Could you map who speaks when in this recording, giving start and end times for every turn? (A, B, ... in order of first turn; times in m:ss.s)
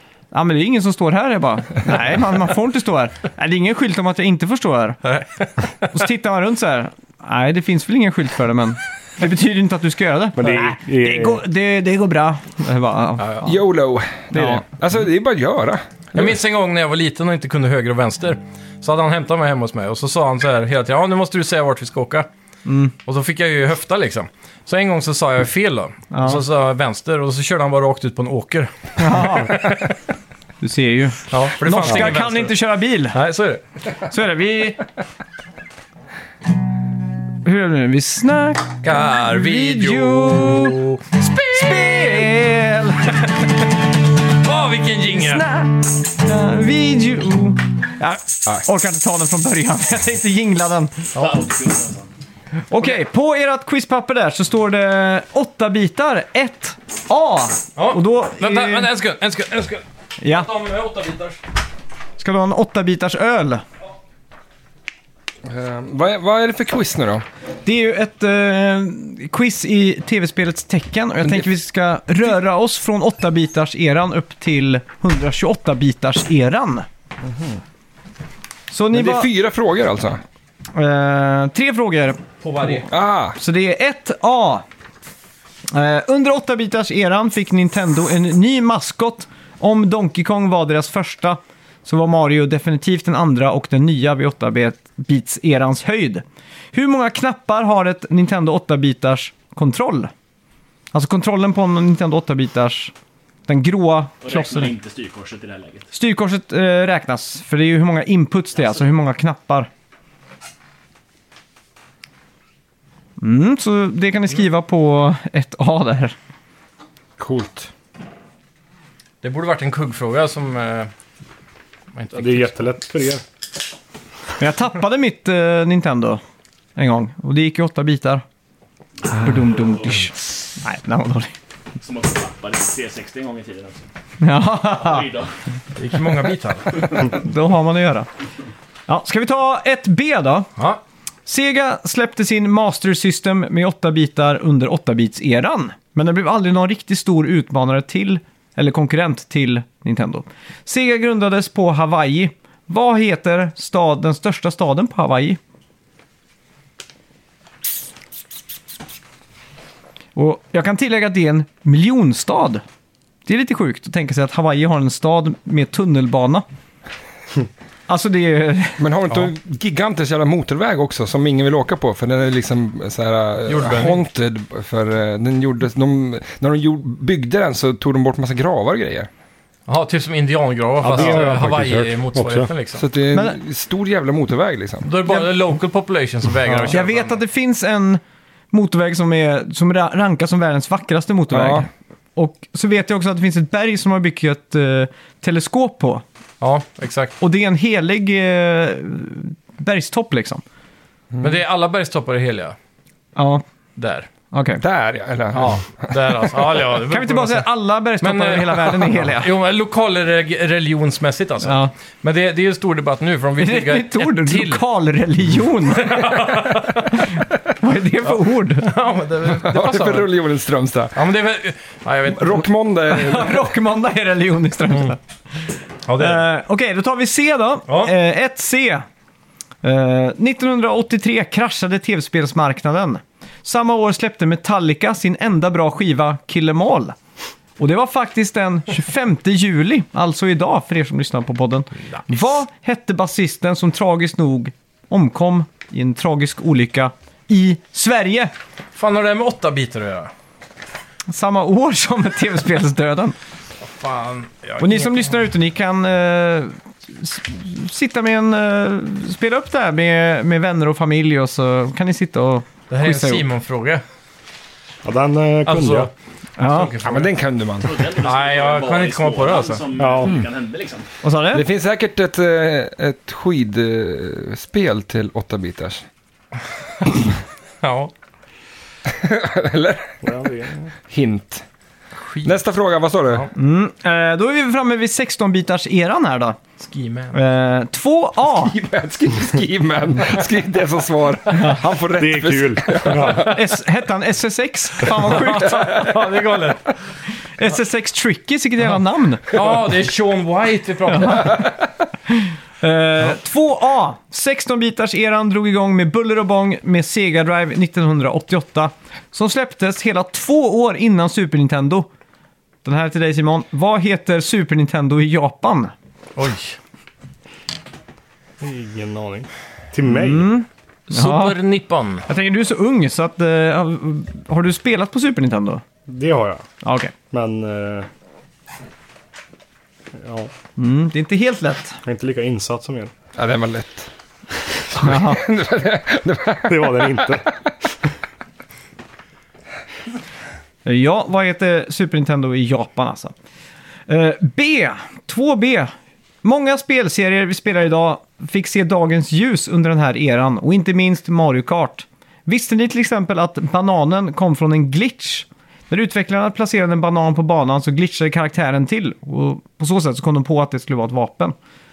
0:00.3-0:05.0 A
0:05.1-0:05.9 B
0:05.9-0:13.5 A
0:10.4-0:11.4 C
0:13.2-0:13.5 B
0:13.4-0:16.3 D
0:14.3-0:14.6 A
0:16.1-0:22.3 B
0:22.7-0:22.9 A
0:23.1-0:29.9 B
0:26.1-0:26.4 A
0:29.0-0:29.7 A
0:30.6-0:33.2 A
0:31.3-0:32.5 B
0:33.1-0:33.6 B
0:34.1-0:34.8 A
0:37.4-0:40.8 A
0:38.8-0:42.3 B
0:41.4-0:43.4 A
0:44.4-0:45.4 B
0:45.1-0:51.1 A
0:51.2-0:52.1 E
0:52.7-0:58.9 A
0:57.8-1:01.4 B
1:00.2-1:00.5 A
1:02.2-1:03.6 A
1:05.4-1:07.2 D
1:07.6-1:16.9 A
1:17.2-1:17.6 D
1:18.7-1:19.3 A
1:18.9-1:20.2 D
1:20.7-1:22.9 A
1:22.4-1:22.9 B
1:22.9-1:23.4 D
1:23.4-1:24.6 A
1:25.7-1:40.1 A
1:40.9-1:42.9 A
1:43.5-1:44.7 A
1:44.2-1:45.9 E
1:45.9-1:49.7 A
1:53.2-1:56.2 A
1:57.2-1:57.7 D
1:59.2-2:00.9 B
2:02.0-2:02.5 B
2:02.2-2:03.2 C
2:04.4-2:06.2 A
2:06.8-2:08.2 A
2:09.0-2:09.9 E
2:09.0-2:11.3 A
2:11.8-2:13.9 E
2:14.2-2:15.1 A
2:14.7-2:15.3 E
2:15.8-2:17.1 B
2:17.0-2:18.1 A
2:18.9-2:20.5 A
2:21.3-2:35.4 A
2:40.2-2:42.6 A
2:43.3-2:46.4 A
2:47.9-2:48.9 A
2:48.8-2:59.1 D
2:53.5-2:54.0 B
2:59.7-3:02.8 B
3:00.8-3:02.5 C
3:02.8-3:04.9 D
3:04.8-3:07.2 B
3:05.0-3:05.4 A
3:06.5-3:08.0 A
3:08.5-3:16.0 A
3:11.3-3:11.7 D
3:16.4-3:17.2 B
3:17.2-3:20.4 A
3:21.1-3:21.4 D
3:21.2-3:22.6 B
3:23.2-3:23.4 A
3:23.8-3:24.1 B
3:24.3-3:24.6 A
3:24.6-3:26.6 D
3:25.3-3:34.6 B
3:26.9-3:29.3 A
3:31.4-3:31.7 A
3:33.4-3:38.7 A
3:35.7-3:37.1 B
3:38.6-3:40.1 B
3:39.2-3:41.0 D
3:41.0-3:42.5 B
3:42.1-3:43.5 D
3:42.9-3:45.0 A
3:45.9-3:46.2 B
3:46.0-3:48.8 A
3:49.6-3:57.0 A
3:57.6-4:08.3 A
4:08.8-4:10.1 B
4:11.1-4:13.2 A
4:13.7-4:15.2 B
4:14.6-4:23.2 A
4:22.7-4:23.8 B
4:24.8-4:25.9 C
4:25.5-4:27.1 B
4:26.4-4:26.8 A
4:26.8-4:27.8 D
4:27.6-4:30.9 E
4:28.0-4:29.6 B
4:29.8-4:30.1 C
4:31.0-4:31.5 A
4:31.3-4:35.8 D
4:36.8-4:37.1 B
4:37.6-4:37.9 B
4:38.9-4:40.0 D
4:40.0-4:40.7 C
4:40.9-4:41.4 D
4:42.0-4:42.4 B
4:42.2-4:43.3 D
4:43.4-4:46.4 A
4:46.6-4:47.2 B
4:47.1-4:48.6 A
4:48.4-4:53.3 D
4:51.3-4:51.6 A
4:52.0-4:53.3 C
4:53.1-4:55.9 A
4:54.9-4:56.7 B
4:55.5-4:56.0 D
4:57.4-4:59.5 A
4:59.3-5:01.5 B
5:00.9-5:01.4 A
5:02.1-5:11.9 A
5:12.6-5:15.7 A
5:16.2-5:16.6 B
5:18.4-5:20.3 C
5:19.9-5:21.4 A
5:20.9-5:22.0 B
5:22.1-5:25.6 A
5:25.9-5:26.5 C
5:26.6-5:26.9 A
5:27.1-5:27.9 C
5:30.0-5:30.3 C
5:30.6-5:31.8 A
5:31.8-5:32.9 C
5:33.2-5:33.9 D
5:34.7-5:37.3 D
5:34.7-5:35.3 A
5:36.4-5:37.4 C
5:40.6-5:43.1 A
5:43.9-5:45.7 A
5:46.2-6:01.4 A